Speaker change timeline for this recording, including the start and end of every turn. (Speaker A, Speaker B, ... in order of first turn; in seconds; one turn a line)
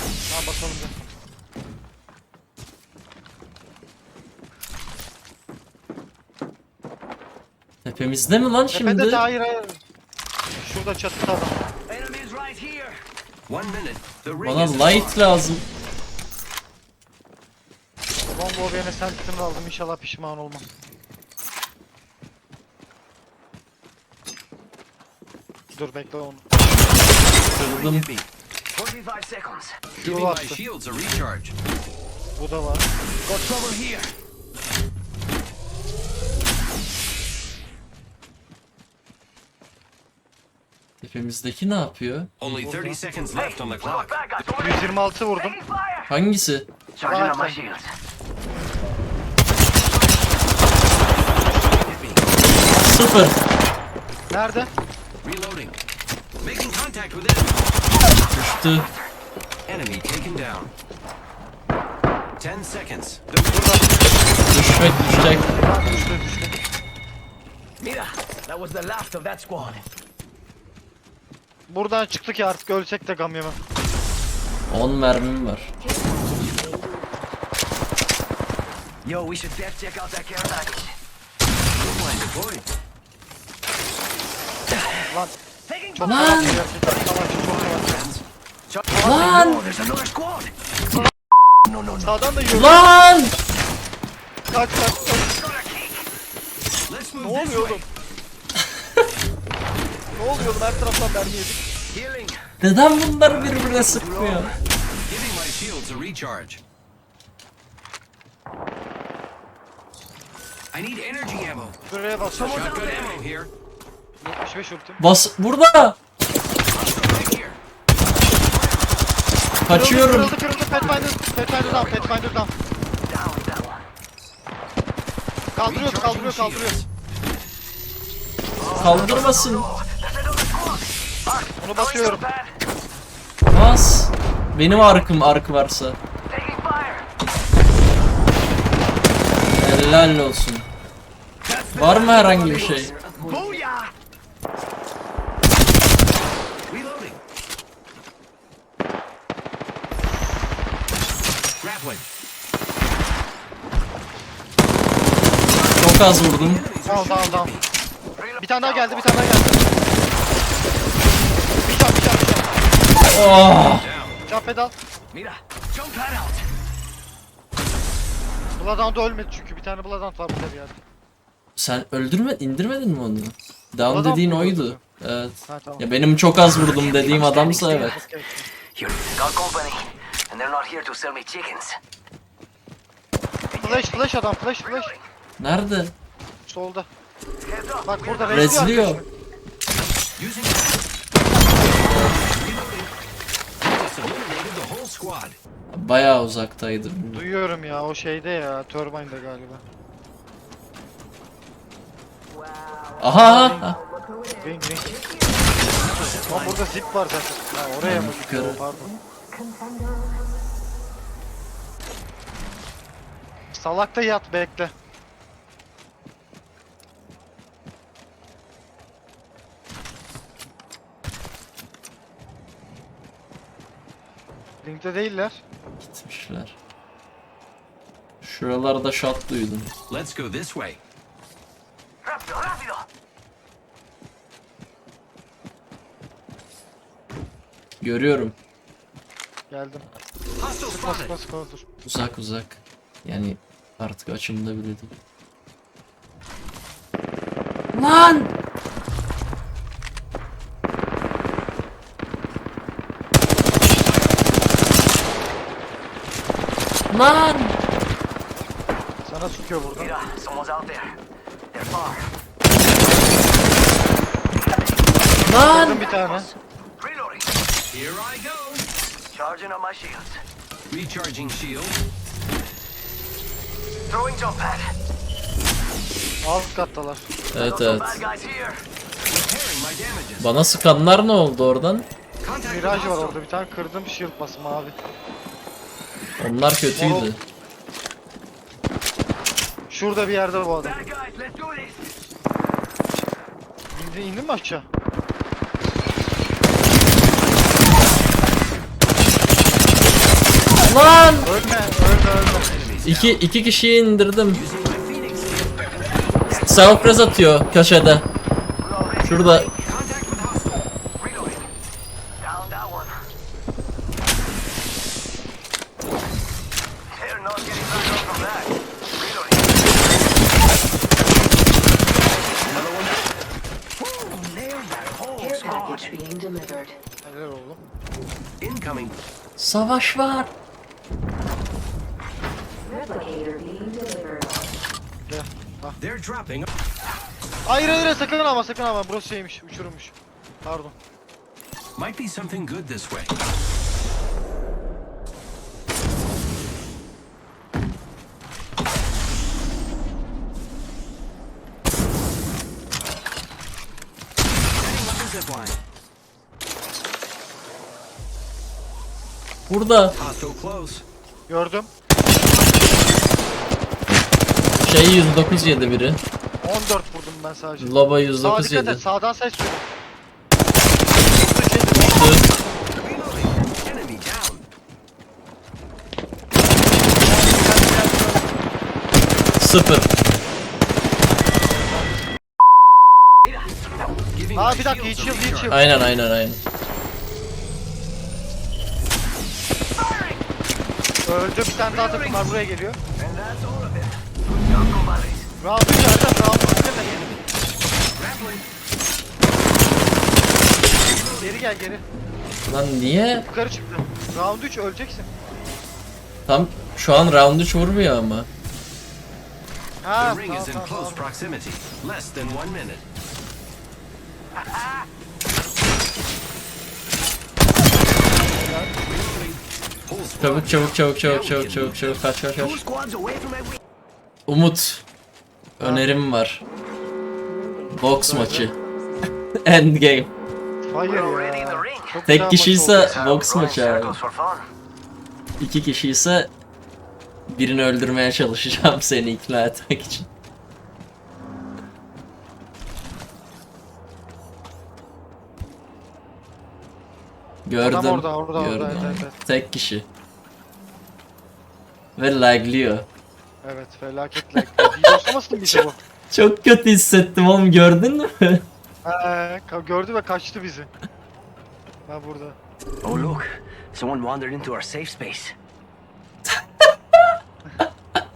Speaker A: 0.3-0.9
Speaker B: 7.8-9.2
Speaker A: 8.7-9.8
Speaker A: 10.6-11.6
Speaker C: 11.9-13.0
Speaker D: 13.5-15.3
Speaker B: 14.3-15.6
Speaker A: 18.3-20.6
Speaker A: 25.7-26.5
Speaker D: 27.4-28.3
Speaker B: 27.5-28.1
Speaker C: 28.7-29.9
Speaker A: 29.9-30.6
Speaker D: 30.0-31.5
Speaker A: 32.4-32.9
Speaker C: 33.2-34.1
Speaker B: 41.0-42.3
Speaker D: 42.4-44.2
Speaker A: 42.5-43.0
Speaker C: 43.3-46.1
Speaker A: 44.6-45.6
Speaker B: 46.1-46.7
Speaker C: 47.0-47.9
Speaker A: 47.0-47.6
Speaker D: 51.0-52.3
Speaker B: 52.7-53.4
Speaker A: 54.3-54.7
Speaker D: 55.2-55.8
Speaker D: 56.4-57.6
Speaker B: 58.3-58.9
Speaker C: 58.8-59.1
Speaker D: 59.7-60.7
Speaker D: 62.4-64.0
Speaker A: 63.5-64.0
Speaker B: 64.5-65.5
Speaker A: 65.2-66.6
Speaker C: 67.8-69.8
Speaker A: 71.7-73.6
Speaker B: 74.7-75.7
Speaker C: 79.0-80.9
Speaker D: 81.8-82.7
Speaker A: 85.0-85.4
Speaker C: 85.7-86.3
Speaker A: 85.9-88.1
Speaker B: 86.0-86.6
Speaker D: 86.7-88.2
Speaker C: 88.8-90.5
Speaker A: 88.9-89.6
Speaker B: 89.0-89.6
Speaker C: 91.7-92.2
Speaker A: 91.9-92.9
Speaker B: 92.5-93.3
Speaker A: 94.5-95.3
Speaker C: 95.0-96.0
Speaker D: 96.9-97.9
Speaker A: 97.2-97.8
Speaker A: 100.1-101.6
Speaker D: 101.9-102.4
Speaker B: 102.6-104.5
Speaker C: 103.3-104.5
Speaker D: 105.1-106.6
Speaker D: 110.7-111.8
Speaker A: 111.9-112.9
Speaker D: 112.3-113.5
Speaker C: 112.4-113.2
Speaker A: 114.2-115.0
Speaker B: 115.0-116.0
Speaker D: 116.7-117.6
Speaker D: 118.5-119.0
Speaker B: 119.6-120.3
Speaker A: 119.7-122.5
Speaker D: 121.5-122.1
Speaker C: 123.0-123.8
Speaker A: 125.5-126.8
Speaker D: 125.6-126.8
Speaker C: 128.6-132.6
Speaker A: 128.7-129.3
Speaker B: 128.7-129.7
Speaker A: 131.6-132.2
Speaker B: 133.5-136.0
Speaker C: 136.3-137.1
Speaker B: 139.6-140.7
Speaker C: 141.4-143.9
Speaker B: 141.7-142.9
Speaker D: 141.8-142.9
Speaker D: 146.7-147.2
Speaker D: 151.6-152.1
Speaker D: 155.6-157.7
Speaker B: 155.8-156.6
Speaker A: 156.8-157.5
Speaker C: 158.2-159.1
Speaker A: 158.4-159.7
Speaker A: 161.6-162.6
Speaker B: 163.1-163.9
Speaker D: 163.8-164.2
Speaker A: 164.2-164.7
Speaker C: 165.1-166.4
Speaker A: 168.6-170.8
Speaker B: 171.6-178.0
Speaker A: 173.8-174.8
Speaker A: 175.4-175.8
Speaker C: 176.6-177.9
Speaker A: 177.4-178.5
Speaker C: 178.8-181.8
Speaker C: 183.5-184.0
Speaker A: 183.6-184.9
Speaker C: 184.6-185.0
Speaker B: 185.4-185.9
Speaker A: 186.4-186.9
Speaker C: 187.4-188.6
Speaker A: 187.8-189.1
Speaker B: 188.3-189.0
Speaker D: 190.2-190.8
Speaker D: 191.9-192.9
Speaker D: 193.6-195.4
Speaker B: 195.7-197.2
Speaker A: 197.1-199.6
Speaker E: 202.4-205.4
Speaker B: 203.0-203.8
Speaker A: 203.1-203.7
Speaker A: 204.4-205.0
Speaker D: 205.8-206.6
Speaker A: 205.9-209.0
Speaker B: 207.8-208.6
Speaker E: 209.3-210.2
Speaker A: 213.5-214.7
Speaker A: 224.6-225.4
Speaker B: 225.8-226.6
Speaker B: 228.2-229.7
Speaker D: 229.9-230.8
Speaker C: 232.0-232.8
Speaker B: 237.8-238.4
Speaker A: 239.5-239.9
Speaker D: 240.4-241.1
Speaker A: 240.7-241.7
Speaker B: 241.8-244.9
Speaker B: 247.7-248.3
Speaker B: 256.9-257.5
Speaker A: 259.0-259.9
Speaker C: 259.8-261.0
Speaker C: 261.5-262.1
Speaker C: 264.5-264.8
Speaker B: 265.2-265.9
Speaker A: 265.3-266.3
Speaker C: 265.6-267.3
Speaker D: 267.7-268.6
Speaker C: 269.1-270.2
Speaker D: 270.7-271.8
Speaker C: 273.9-274.7
Speaker A: 276.2-277.1
Speaker B: 277.3-278.0
Speaker C: 277.4-278.6
Speaker D: 279.1-280.3
Speaker B: 280.2-281.9
Speaker D: 282.2-283.2
Speaker A: 282.4-284.8
Speaker B: 286.2-287.2
Speaker A: 286.8-287.1
Speaker A: 289.7-290.8
Speaker C: 290.6-291.9
Speaker A: 293.7-294.7
Speaker B: 300.6-301.3
Speaker A: 301.2-302.7
Speaker D: 302.3-303.2
Speaker B: 302.8-304.4
Speaker D: 304.3-306.6
Speaker B: 306.3-308.0
Speaker C: 306.6-306.8
Speaker C: 308.6-309.6
Speaker B: 309.0-309.5
Speaker D: 309.6-310.6
Speaker C: 311.0-311.5
Speaker C: 312.2-312.9
Speaker C: 316.9-319.6
Speaker D: 322.5-322.9
Speaker C: 323.8-325.9
Speaker E: 325.2-326.8
Speaker A: 327.0-327.6
Speaker D: 328.4-329.0
Speaker B: 329.4-330.3
Speaker E: 332.7-334.4
Speaker A: 335.1-335.8
Speaker D: 335.8-336.5
Speaker A: 337.4-340.8
Speaker D: 341.8-343.1
Speaker D: 354.6-355.6
Speaker B: 359.5-359.9
Speaker D: 359.9-360.8
Speaker A: 361.3-361.7
Speaker B: 364.6-366.0
Speaker A: 366.4-369.7
Speaker B: 367.6-368.8
Speaker A: 371.0-372.1
Speaker B: 371.8-372.2
Speaker D: 372.8-374.5
Speaker A: 377.0-378.3
Speaker B: 379.4-379.9
Speaker A: 381.3-382.0
Speaker D: 384.1-385.6
Speaker A: 384.3-385.7
Speaker B: 385.5-386.4
Speaker A: 391.0-392.8
Speaker D: 391.6-392.4
Speaker C: 393.0-395.3
Speaker A: 395.4-397.1
Speaker D: 396.5-397.2
Speaker D: 397.9-398.5
Speaker D: 400.9-401.3
Speaker A: 401.2-401.9
Speaker B: 402.5-403.3
Speaker A: 403.3-405.1
Speaker B: 406.3-408.3
Speaker A: 409.8-411.2
Speaker D: 410.0-412.9
Speaker A: 418.2-418.8
Speaker D: 418.8-422.0
Speaker B: 420.2-422.6
Speaker C: 422.4-423.6
Speaker B: 424.3-424.8
Speaker B: 425.6-426.4
Speaker A: 425.6-425.9
Speaker E: 427.3-427.8
Speaker B: 427.7-428.5
Speaker A: 428.0-428.5
Speaker B: 429.4-430.1
Speaker A: 430.6-433.1
Speaker C: 430.8-431.9
Speaker B: 432.1-434.0
Speaker C: 432.8-434.5
Speaker B: 435.4-436.3
Speaker B: 437.3-440.1
Speaker B: 447.4-449.9
Speaker A: 447.6-449.1
Speaker B: 452.0-452.9
Speaker A: 453.4-455.8
Speaker B: 454.4-454.9
Speaker B: 455.5-458.4
Speaker A: 458.9-460.7
Speaker A: 461.9-462.4
Speaker C: 462.8-465.3